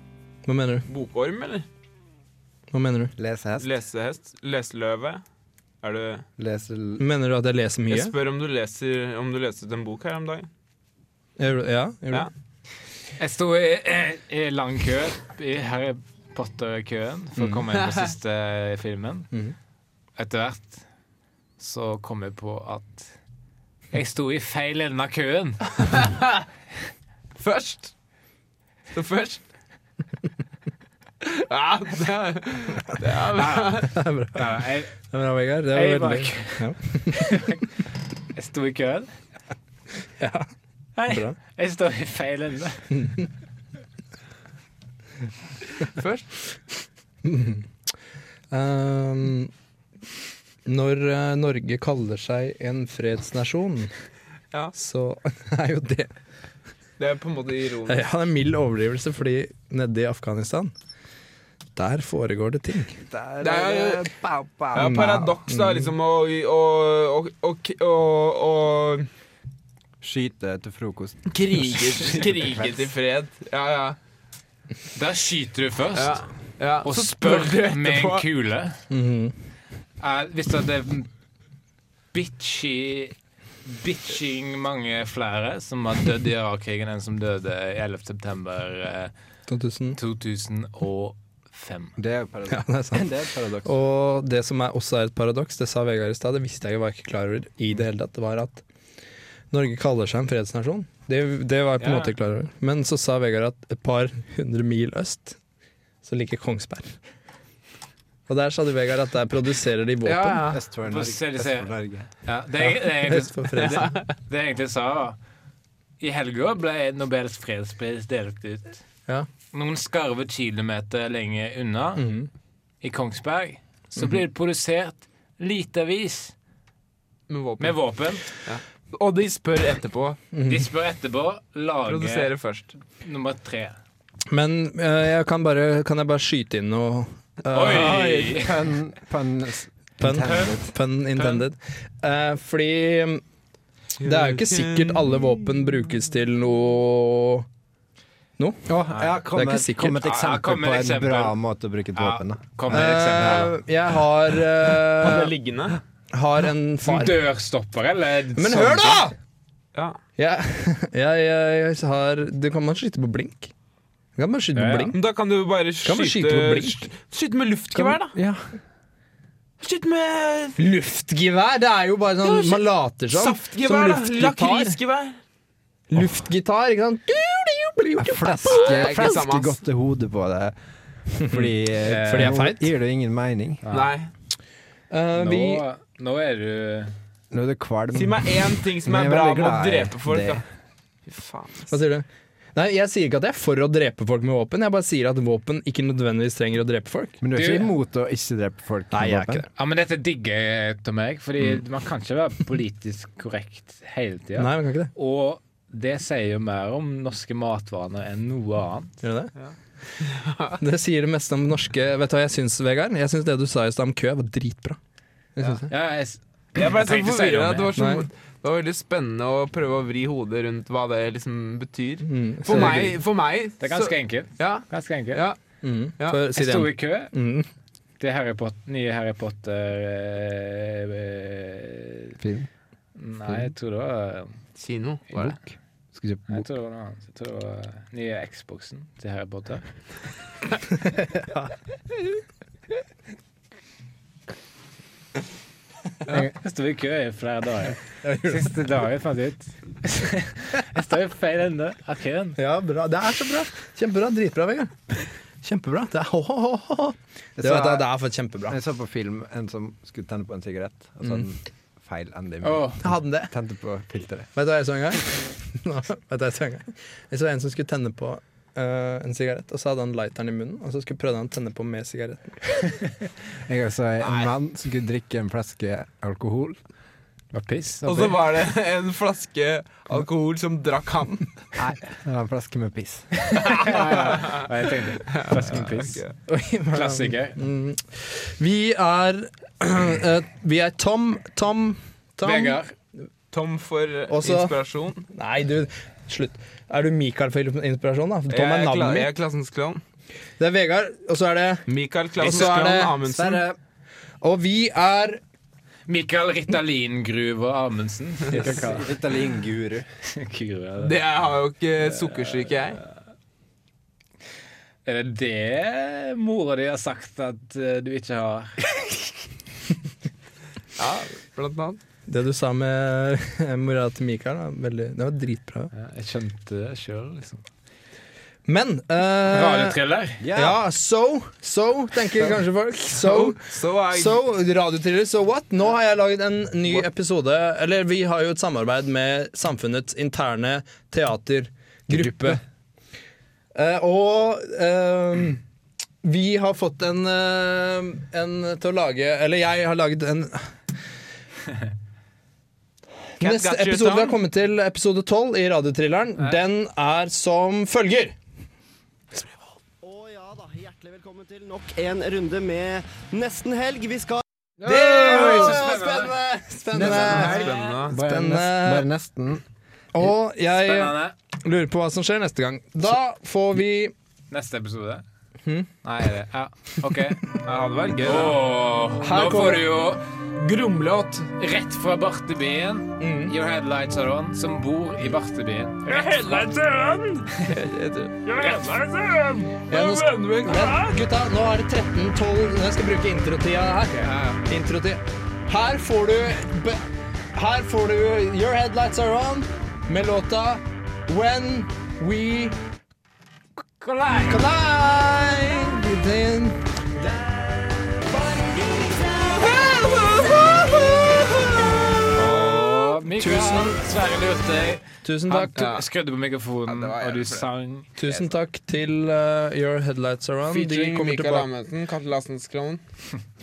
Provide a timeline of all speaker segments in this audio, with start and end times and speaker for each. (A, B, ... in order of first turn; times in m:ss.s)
0:00.4-0:00.8 A
0:00.9-0:01.6 B
0:02.7-0:03.1 A
0:03.2-0:03.7 C
0:03.6-0:05.2 B
0:05.8-0:06.2 B
0:06.4-0:07.0 C
0:07.0-0:08.1 A
0:07.9-0:10.5 B
0:11.4-0:12.3 A
0:13.2-0:19.3 D
0:17.4-0:17.6 A
0:20.2-0:20.8 D
0:21.6-0:23.1 D
0:23.9-0:25.7 D
0:25.9-0:26.4 B
0:27.4-0:27.9 B
0:28.9-0:29.4 B
0:31.2-0:33.9 B
0:33.3-0:34.9 D
0:33.9-0:34.5 A
0:35.0-0:37.6 A
0:35.7-0:37.6 D
0:38.4-0:39.1 D
0:40.2-0:40.5 A
0:41.0-0:42.9 D
0:41.1-0:41.4 A
0:42.9-0:43.3 A
0:45.9-0:46.3 B
0:47.2-0:47.7 A
0:48.5-0:49.5 A
0:50.6-0:53.9 A
0:54.7-0:56.1 A
0:57.0-0:58.1 B
0:57.9-1:00.7 A
1:01.8-1:03.0 A
1:03.1-1:05.1 C
1:03.4-1:04.1 B
1:04.7-1:09.1 B
1:04.7-1:05.9 A
1:10.0-1:12.9 C
1:11.3-1:14.0 B
1:14.9-1:16.2 D
1:15.9-1:18.2 B
1:16.8-1:18.8 D
1:18.9-1:19.4 A
1:20.0-1:21.1 D
1:22.1-1:23.1 D
1:23.6-1:29.1 D
1:29.5-1:30.0 A
1:29.9-1:32.0 D
1:32.0-1:33.7 C
1:32.5-1:33.1 A
1:33.6-1:38.6 A
1:39.5-1:45.4 A
1:41.8-1:42.1 D
1:46.0-1:47.0 A
1:48.3-1:50.5 A
1:50.0-1:50.6 B
1:50.4-1:52.1 C
1:50.8-1:55.2 D
1:52.6-1:54.0 A
1:56.0-1:58.8 D
1:59.5-2:02.1 D
2:02.0-2:02.3 A
2:02.8-2:06.3 D
2:07.3-2:07.8 B
2:07.6-2:08.3 D
2:08.4-2:10.2 B
2:10.3-2:10.6 A
2:10.4-2:12.3 D
2:11.8-2:12.7 B
2:13.0-2:13.8 D
2:14.3-2:18.1 A
2:17.5-2:18.6 D
2:17.6-2:20.7 C
2:20.0-2:23.2 A
2:21.2-2:21.4 D
2:24.0-2:25.4 B
2:24.0-2:27.4 A
2:28.4-2:28.7 A
2:28.7-2:32.4 C
2:28.9-2:29.1 D
2:29.3-2:30.0 A
2:30.0-2:31.4 D
2:31.9-2:33.6 D
2:32.7-2:35.4 A
2:35.0-2:35.8 B
2:36.1-2:37.2 A
2:36.9-2:39.0 D
2:38.4-2:39.1 A
2:40.2-2:43.5 A
2:44.2-2:45.0 A
2:44.5-2:44.9 D
2:44.9-2:48.2 B
2:45.8-2:46.9 A
2:48.1-2:48.5 C
2:49.6-2:50.6 B
2:50.6-2:54.8 A
2:52.2-2:55.2 B
2:55.9-2:59.1 A
2:58.0-3:00.6 C
2:58.5-2:59.6 B
3:01.2-3:03.6 C
3:01.8-3:02.4 D
3:02.1-3:02.7 A
3:03.6-3:03.9 D
3:03.7-3:04.1 B
3:04.9-3:05.6 A
3:05.1-3:06.9 D
3:07.3-3:10.4 C
3:07.9-3:10.4 B
3:11.1-3:11.7 B
3:11.7-3:17.2 A
3:17.2-3:19.5 C
3:17.3-3:17.7 D
3:18.9-3:19.5 A
3:19.6-3:28.9 D
3:24.4-3:24.9 A
3:29.0-3:29.3 A
3:29.4-3:30.6 B
3:30.6-3:34.8 A
3:35.4-3:35.7 A
3:35.7-3:37.8 D
3:36.6-3:45.4 B
3:37.8-3:38.1 A
3:42.0-3:43.0 A
3:42.5-3:42.9 D
3:43.6-3:45.2 D
3:45.6-3:47.5 A
3:46.3-3:47.1 D
3:48.0-3:52.2 D
3:52.2-3:52.5 C
3:53.0-3:54.4 D
3:54.6-3:55.3 B
3:55.2-3:56.5 C
3:56.3-3:59.6 D
4:01.0-4:01.5 A
4:06.1-4:12.4 D
4:08.0-4:08.6 A
4:12.4-4:14.8 A
4:15.4-4:18.6 A
4:17.4-4:17.9 C
4:18.5-4:24.3 C
4:22.4-4:22.8 D
4:22.8-4:23.3 A
4:24.4-4:32.7 A
4:33.5-4:36.6 C
4:34.0-4:34.3 B
4:37.3-4:38.2 D
4:37.8-4:41.3 B
4:41.6-4:43.3 C
4:43.3-4:46.0 D
4:43.4-4:44.5 B
4:45.1-4:46.1 B
4:46.3-4:52.6 A
4:46.7-4:47.4 D
4:52.2-4:52.7 D
4:53.3-4:55.0 B
4:54.1-4:54.5 A
4:55.1-4:59.1 A
4:58.3-4:59.8 B
5:00.4-5:03.0 A
5:01.7-5:03.4 B
5:03.0-5:03.6 C
5:04.2-5:05.2 A
5:05.9-5:08.9 D
5:08.3-5:09.9 C
5:10.1-5:10.9 D
5:10.8-5:12.8 B
5:12.1-5:12.5 D
5:14.8-5:19.1 D
5:20.8-5:21.8 B
5:22.1-5:25.7 A
5:25.7-5:27.4 D
5:28.4-5:29.8 A
5:29.3-5:30.2 D
5:30.2-5:30.6 C
5:30.3-5:42.4 A
5:33.0-5:34.2 B
5:41.9-5:42.4 C
5:43.6-5:45.4 A
5:46.0-5:50.5 A
5:53.2-5:58.1 A
5:53.2-5:54.2 B
5:59.8-6:04.2 E
6:04.6-6:08.9 A
6:04.6-6:05.5 B
6:04.9-6:06.1 D
6:06.7-6:09.4 C
6:06.8-6:07.9 D
6:06.9-6:08.0 B
6:09.9-6:13.9 A
6:10.5-6:11.1 D
6:14.3-6:15.0 D
6:15.4-6:15.7 A
6:15.8-6:17.2 D
6:17.4-6:18.4 B
6:18.0-6:20.0 D
6:19.1-6:19.6 A
6:20.4-6:21.3 B
6:21.4-6:26.5 D
6:23.0-6:23.3 A
6:25.9-6:31.0 B
6:28.3-6:28.8 D
6:29.7-6:36.8 A
6:37.4-6:42.6 A
6:43.8-6:44.4 D
6:44.3-6:47.1 A
6:49.4-6:51.6 A
6:49.4-6:50.7 B
6:52.1-6:57.9 D
6:52.2-6:52.6 B
6:53.1-6:53.8 A
6:55.0-6:55.6 A
6:55.6-6:55.8 B
6:56.6-6:57.5 B
6:58.0-7:01.5 A
7:00.5-7:02.8 B